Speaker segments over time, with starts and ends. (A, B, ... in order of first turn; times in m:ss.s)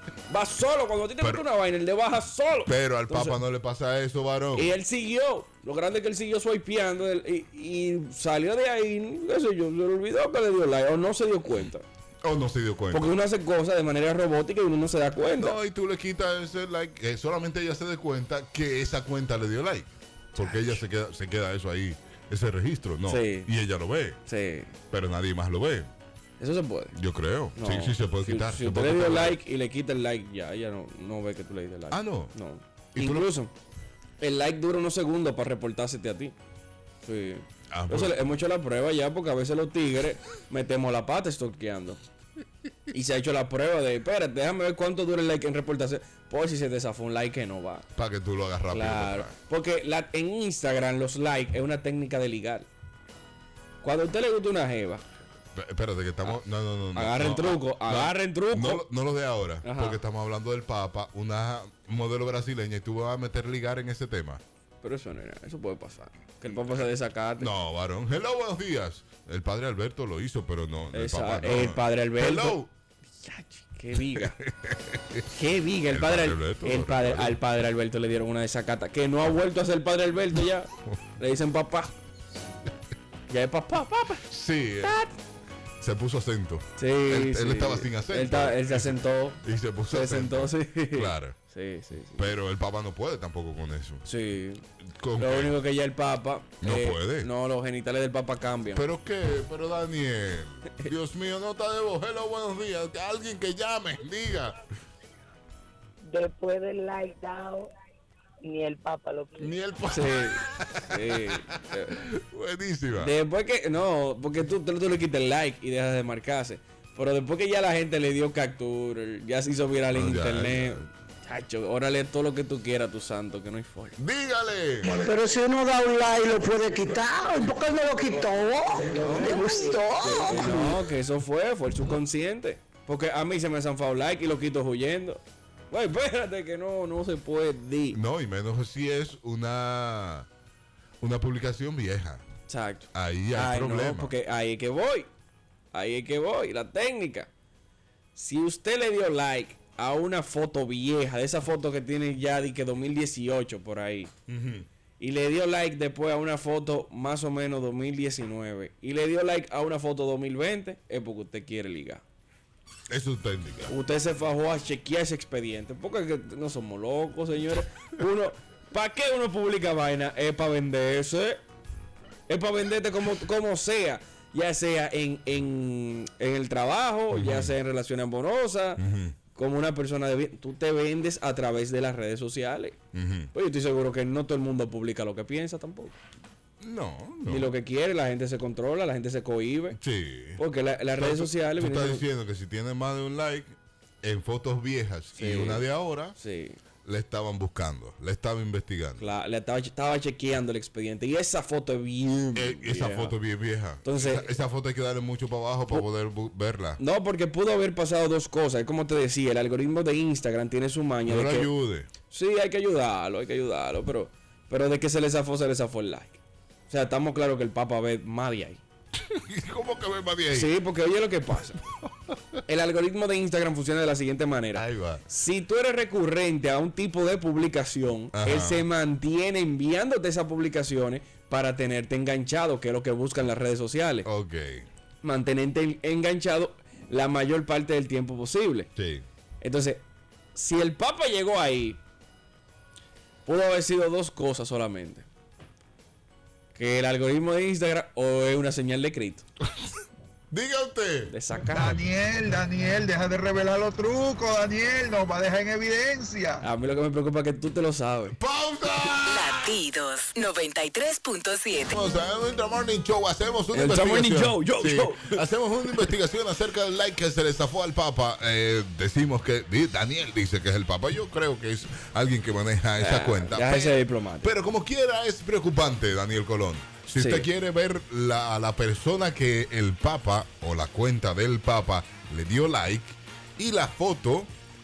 0:00.3-0:03.4 A
0:02.7-0:04.7 B
0:04.6-0:11.8 A
0:12.2-0:13.1 B
0:12.9-0:15.6 A
0:15.4-0:24.2 B
0:23.1-0:23.5 A
0:24.3-0:24.7 A
0:24.9-0:25.9 B
0:26.4-0:27.0 A
0:26.9-0:29.4 B
0:27.6-0:33.5 A
0:31.9-0:32.3 B
0:33.0-0:33.3 B
0:34.2-0:36.4 A
0:37.0-0:42.0 A
0:37.7-0:38.2 B
0:42.9-0:47.9 A
0:48.0-0:49.3 B
0:48.7-0:52.7 A
0:53.8-0:55.0 A
0:55.6-1:04.4 B
0:57.0-0:58.8 A
0:59.6-1:00.0 A
1:04.8-1:07.5 A
1:07.4-1:12.7 B
1:10.9-1:12.6 A
1:13.2-1:14.4 A
1:14.2-1:15.3 B
1:15.3-1:21.9 A
1:15.9-1:17.4 B
1:23.3-1:24.2 A
1:24.3-1:25.0 B
1:24.8-1:25.1 A
1:25.8-1:31.4 B
1:26.8-1:32.3 A
1:32.2-1:34.1 B
1:34.1-1:34.6 A
1:35.0-1:35.5 B
1:35.2-1:38.8 A
1:36.6-1:37.3 B
1:38.8-1:44.6 B
1:46.0-1:47.7 C
1:48.4-1:49.5 C
1:49.4-1:51.3 B
1:49.9-1:52.0 A
1:51.9-1:53.1 B
1:53.0-2:04.0 A
1:59.9-2:00.9 B
2:04.0-2:04.9 B
2:04.8-2:10.8 D
2:09.0-2:18.0 A
2:17.9-2:20.3 B
2:21.0-2:22.2 B
2:22.5-2:25.1 A
2:22.9-2:24.1 B
2:25.7-2:27.3 A
2:28.2-2:34.1 A
2:34.3-2:34.7 B
2:35.0-2:42.0 A
2:42.9-2:43.7 B
2:43.7-2:51.4 A
2:52.3-2:58.8 A
2:57.1-2:57.5 B
2:58.8-2:59.2 B
2:59.3-3:02.8 A
3:02.9-3:03.3 B
3:03.3-3:06.0 A
3:06.6-3:07.5 B
3:07.3-3:09.8 A
3:09.8-3:10.4 B
3:10.4-3:12.0 A
3:11.0-3:16.1 B
3:15.2-3:15.6 A
3:16.2-3:16.6 A
3:16.8-3:19.0 B
3:19.0-3:23.2 A
3:22.4-3:26.8 B
3:23.8-3:24.3 A
3:26.8-3:31.5 A
3:31.1-3:31.9 B
3:32.1-3:36.2 A
3:36.7-3:38.6 A
3:39.1-3:40.5 B
3:40.3-3:41.6 A
3:42.5-3:54.1 A
3:44.6-3:45.0 B
3:48.1-3:48.6 B
3:54.0-3:54.7 B
3:55.0-3:58.7 A
3:58.8-3:59.0 B
3:59.4-3:59.8 A
4:00.4-4:01.8 A
4:03.3-4:05.0 A
4:06.6-4:09.2 A
4:10.3-4:11.1 B
4:11.1-4:11.8 A
4:11.5-4:16.4 E
4:16.4-4:18.2 A
4:18.1-4:19.6 B
4:19.1-4:21.7 F
4:21.7-4:44.3 B
4:23.5-4:25.2 A
4:32.8-4:34.3 A
4:37.0-4:37.3 A